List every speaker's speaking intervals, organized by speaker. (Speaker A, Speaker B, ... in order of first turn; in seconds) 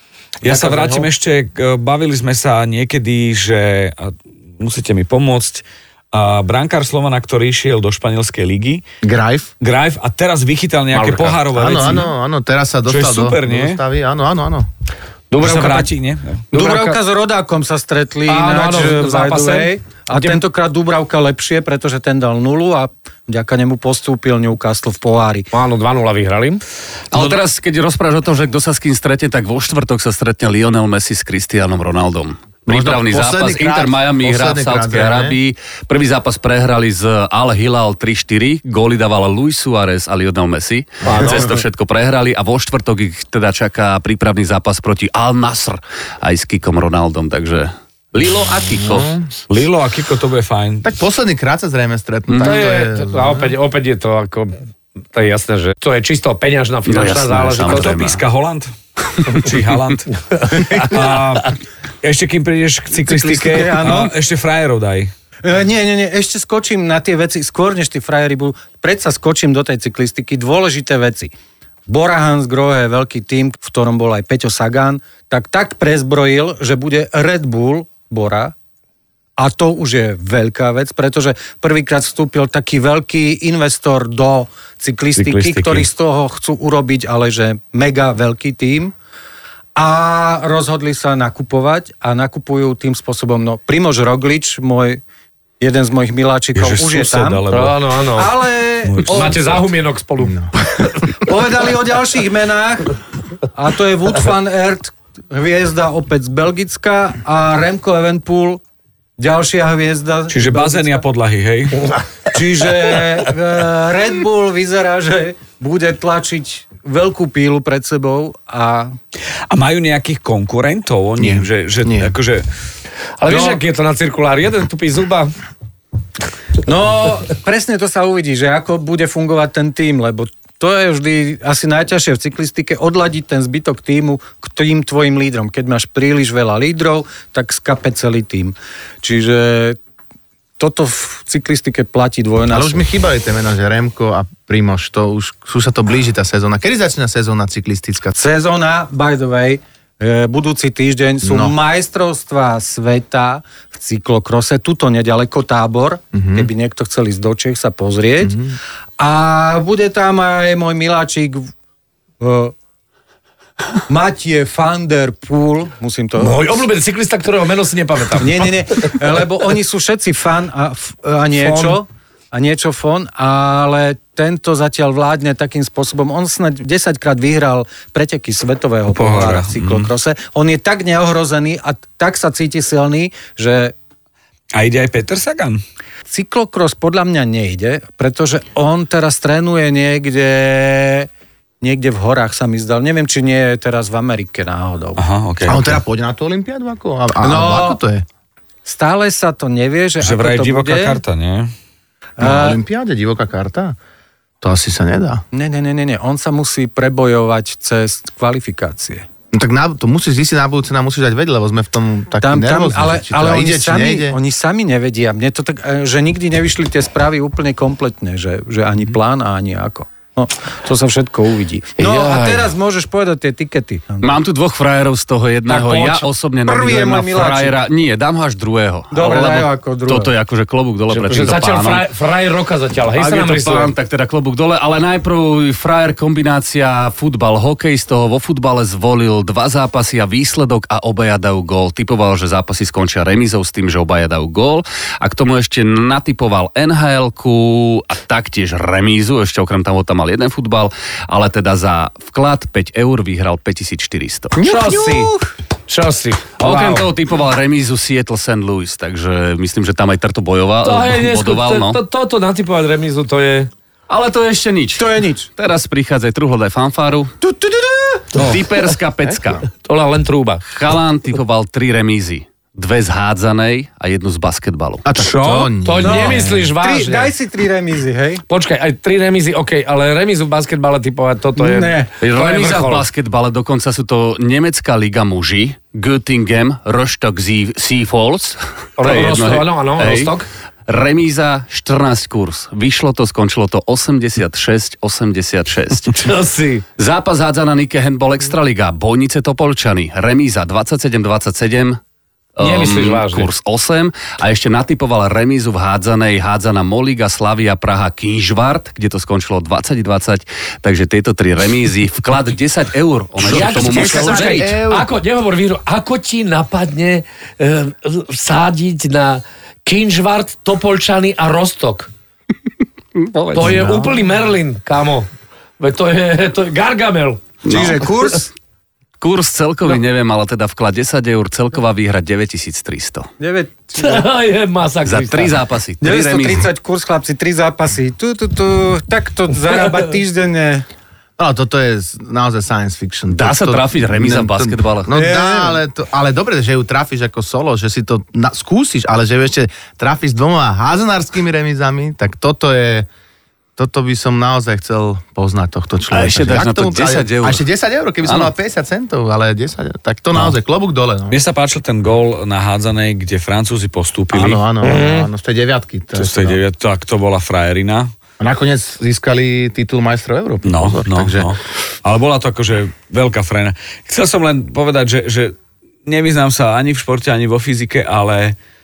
Speaker A: 0.4-8.8, 9.6-12.1, 12.9-13.8, 15.4-16.4, 49.5-50.9, 57.7-58.7, 59.2-65.1, 85.2-85.8, 96.5-97.8, 98.8-99.3, 110.3-111.9, 119.5-122.5, 178.9-179.9, 184.5-185.6, 195.0-195.8, 200.0-201.5, 275.0-275.5, 361.1-364.4, 365.9-367.9, 370.4-378.4
Speaker B: 0.5-1.0, 10.9-11.5, 15.3-15.9, 16.5-17.0, 18.3-20.4, 25.5-26.6, 41.0-41.5, 52.4-58.0, 60.4-61.0, 97.5-98.3, 99.1-100.5, 123.2-125.3, 166.2-168.9, 171.3-171.8, 221.8-222.5, 225.5-226.1, 230.9-233.7, 254.4-255.1, 255.7-256.9, 260.6-263.5, 269.5-270.4, 275.6-277.1, 278.3-282.9, 288.8-290.3, 295.9-296.6, 302.4-303.3, 313.2-321.9, 323.2-325.1, 325.6-327.2, 333.8-335.4, 364.6-365.1
Speaker C: 9.0-9.5, 11.5-14.7, 32.7-35.4, 48.9-49.3, 50.8-53.5, 100.2-100.5, 121.2-122.1, 142.5-148.1, 151.2-151.5, 156.1-156.5, 158.2-158.6, 195.4-198.1, 202.2-203.8, 204.4-205.2, 209.3-214.2, 274.8-276.2, 313.2-314.9, 323.4-323.9, 341.2-352.9, 353.6-361.2, 364.1-366.4, 368.2-371.3
Speaker D: 16.5-25.5, 63.0-64.1, 65.4-71.3, 71.9-78.5, 79.4-88.9, 89.8-95.0, 95.6-97.4, 98.2-99.4, 101.2-103.0, 103.5-108.6, 109.2-111.0, 112.3-118.9, 126.6-139.8, 140.6-142.8, 148.1-158.4, 159.0-161.5, 162.2-162.5, 163.9-166.6, 168.2-183.7, 186.1-191.1, 191.6-195.0, 197.2-197.8, 198.6-201.0, 202.2-202.6, 205.3-209.0, 212.2-224.1, 226.4-227.6, 228.9-230.1, 254.4-255.3, 264.8-265.3, 267.2-268.0, 275.8-278.2, 281.4-281.9, 327.4-328.3, 333.2-334.0, 335.8-340.6, 344.9-345.6
Speaker E: 27.1-49.2, 52.3-52.6, 56.9-58.2, 224.0-231.9, 232.9-254.4, 256.4-261.8, 263.9-267.1, 268.1-269.5, 270.5-274.8, 282.0-290.1, 290.7-296.0, 296.8-301.8, 302.4-314.5, 327.4-327.9, 329.0-333.1, 334.8-336.5, 343.1-344.9, 355.9-357.4, 358.0-358.3